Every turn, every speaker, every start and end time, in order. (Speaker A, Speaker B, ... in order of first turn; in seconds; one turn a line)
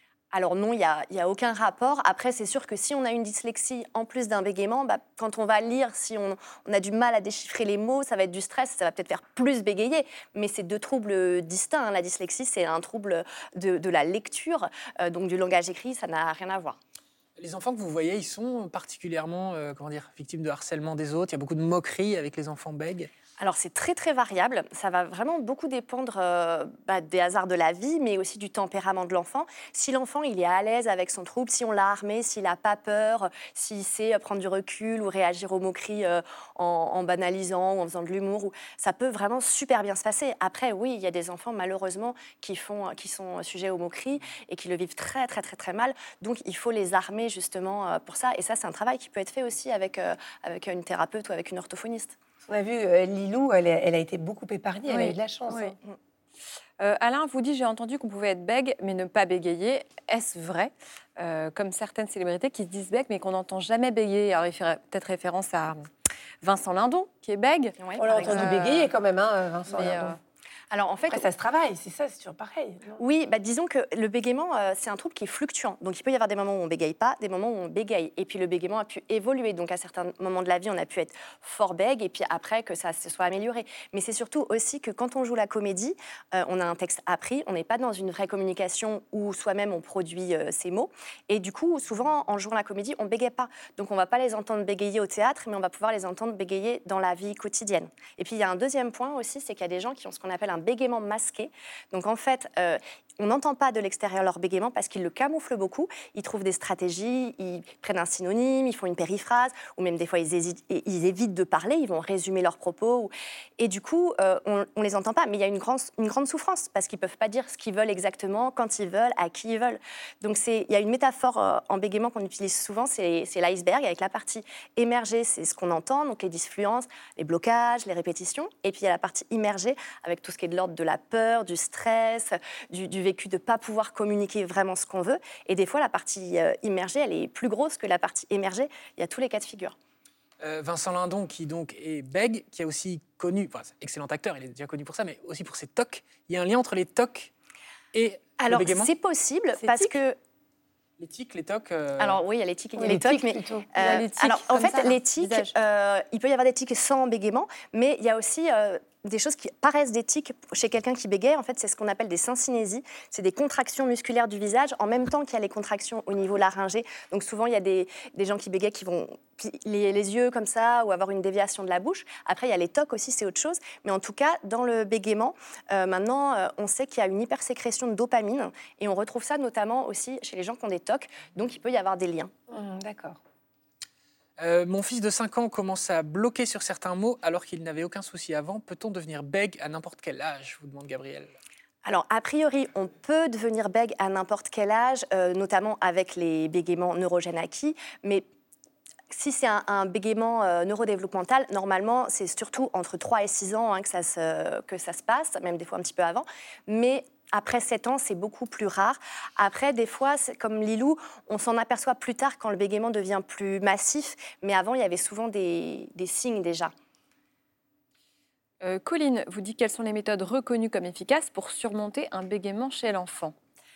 Speaker A: 0.3-16.8
Speaker B: 17.4-23.1
Speaker A: 23.4-52.2
Speaker C: 52.5-55.8
Speaker D: 54.9-55.8
Speaker D: 56.8-65.9
Speaker D: 66.4-68.9
Speaker A: 67.8-68.5
Speaker C: 68.0-70.2
Speaker D: 69.7-70.2
Speaker A: 70.7-71.3
Speaker C: 71.1-73.0
Speaker A: 73.0-139.8
Speaker B: 140.4-147.3
Speaker B: 147.9-148.9
Speaker A: 148.4-150.2
Speaker D: 149.6-150.0
Speaker B: 151.0-152.2
Speaker A: 152.0-182.3
Speaker C: 152.8-153.7
Speaker D: 153.8-155.5
Speaker C: 182.5-183.2
Speaker B: 184.4-191.3
Speaker A: 191.8-198.2
Speaker A: 199.1-216.7
Speaker D: 218.6-223.3